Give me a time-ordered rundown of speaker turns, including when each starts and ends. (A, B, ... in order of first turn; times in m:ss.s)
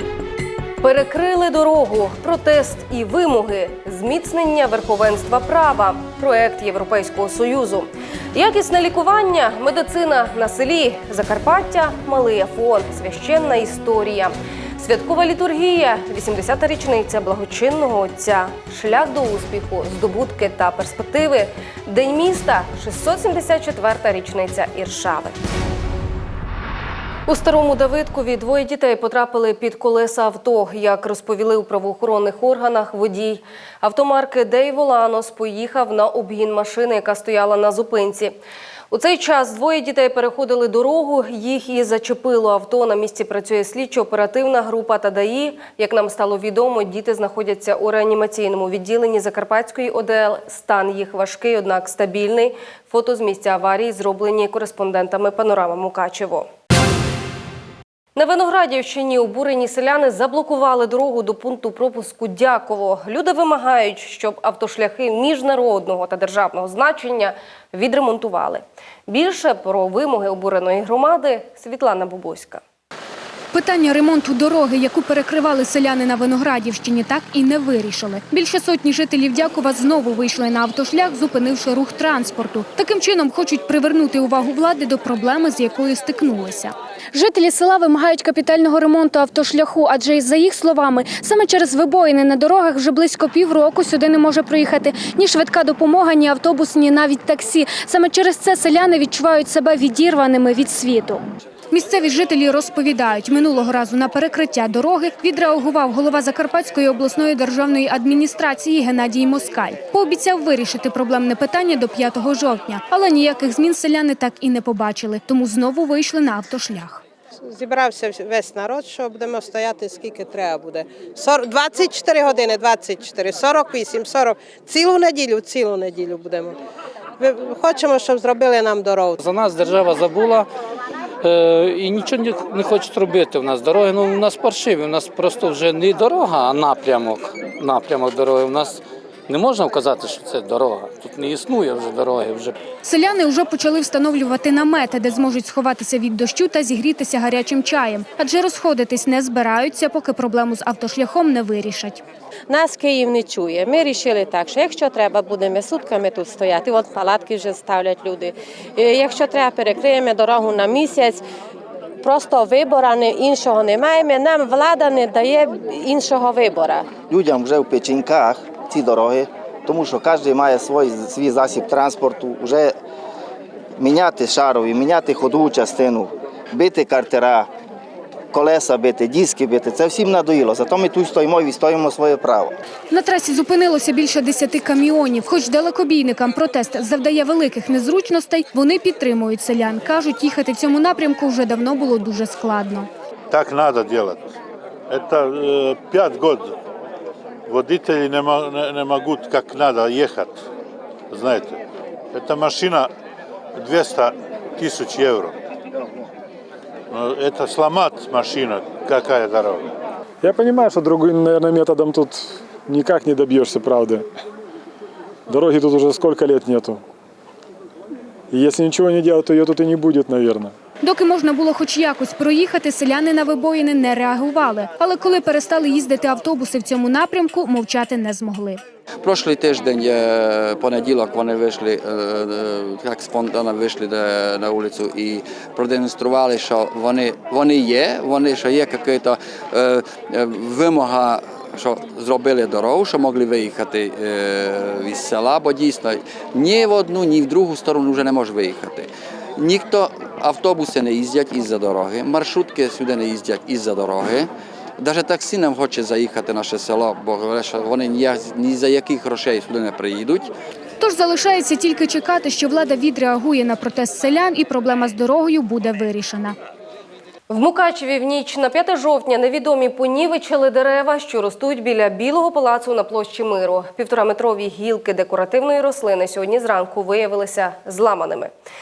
0:00.8-0:25.4 A
0:27.3-0:38.4 A
0:38.9-0:56.5 A
0:58.2-1:12.6 A
1:13.5-1:57.0 B
1:57.4-2:06.6 C
2:07.2-2:09.2 C
2:09.2-2:10.5 D
2:11.2-2:22.6 D
2:22.8-2:32.0 B
2:32.5-2:41.2 E
2:42.0-2:47.0 E
2:47.0-2:52.8 F
2:53.8-2:57.5 F
2:58.3-3:02.6 F
3:02.9-3:12.9 B
3:13.3-3:14.3 G
3:14.9-3:16.6 G
3:17.5-3:20.4 G
3:21.1-3:21.6 G
3:22.1-3:22.9 G
3:23.6-3:25.4 G
3:26.9-3:29.7 G
3:30.2-3:34.1 H
3:35.3-3:36.8 H
3:38.3-3:40.5 H
3:40.8-3:48.6 B
3:49.0-4:20.3 I
4:20.8-4:26.4 B
4:27.3-4:38.3 A